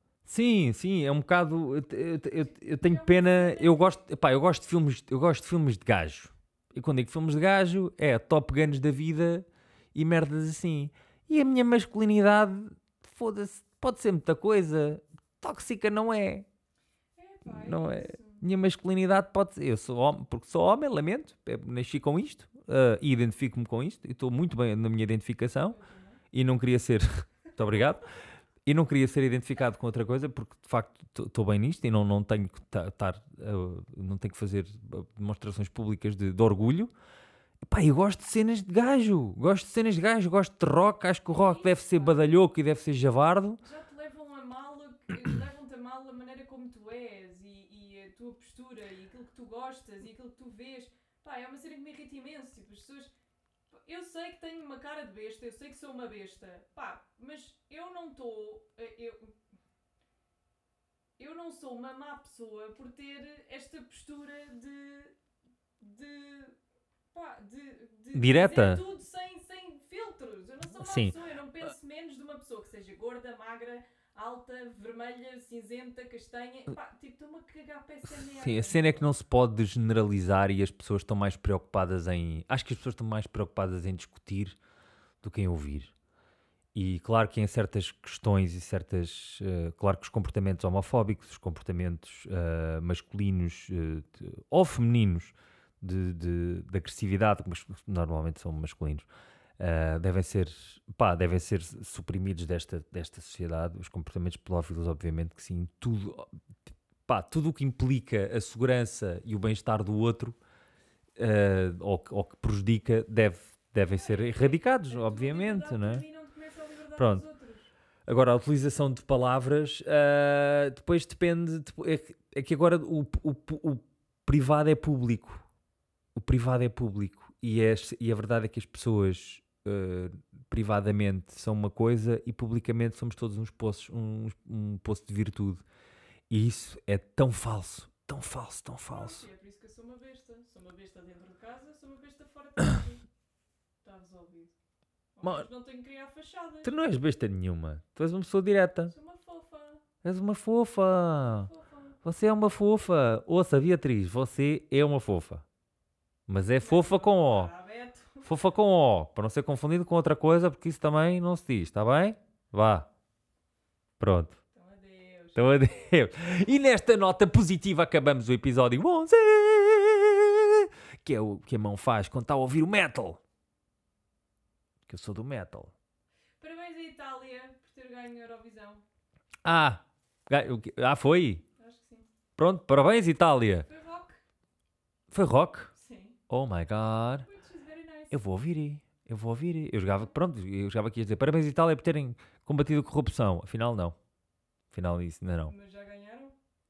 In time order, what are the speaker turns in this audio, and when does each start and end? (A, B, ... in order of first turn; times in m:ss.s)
0:00.2-0:16.5 A
0:02.4-0:04.0 B
0:17.2-0:18.4 B
0:17.4-0:25.8 A
0:25.6-0:26.2 B
0:26.3-0:28.0 A
0:28.6-0:36.9 A
0:37.6-0:43.6 A
0:41.3-0:42.3 B
0:43.6-0:53.1 B
0:53.7-0:59.3 B
1:01.2-1:05.2 B
1:05.8-1:06.6 B
1:07.1-1:19.1 B
1:08.1-1:08.8 A
1:10.8-1:11.2 A
1:18.2-1:24.6 A
1:25.2-1:25.9 A
1:26.7-1:39.1 A
1:39.6-1:46.3 A
1:47.1-1:50.4 A
1:51.2-1:56.0 A
1:53.9-1:57.7 B
1:57.0-1:57.3 A
1:58.1-2:05.4 A
2:06.2-2:15.6 A
2:16.3-2:19.2 A
2:18.9-2:23.0 B
2:23.8-2:24.5 B
2:25.2-2:26.8 B
2:25.2-2:25.5 A
2:26.6-2:28.9 A
2:28.9-2:29.8 B
2:30.0-2:31.5 A
2:31.2-2:32.0 B
2:32.0-2:35.4 A
2:36.3-2:37.5 A
2:36.6-2:38.3 B
2:38.2-2:42.9 A
2:44.0-2:44.4 A
2:44.5-2:45.9 B
2:45.4-2:53.2 A
2:54.9-2:55.7 A
2:56.4-2:58.8 B
2:59.4-3:01.4 A
3:01.6-3:02.1 B
3:02.4-3:03.7 A
3:03.7-3:04.2 B
3:05.1-3:05.7 A
3:05.7-3:06.2 B
3:06.3-3:07.3 A
3:07.2-3:08.2 B
3:08.1-3:14.0 A
3:14.7-3:15.5 A
3:15.5-3:16.4 B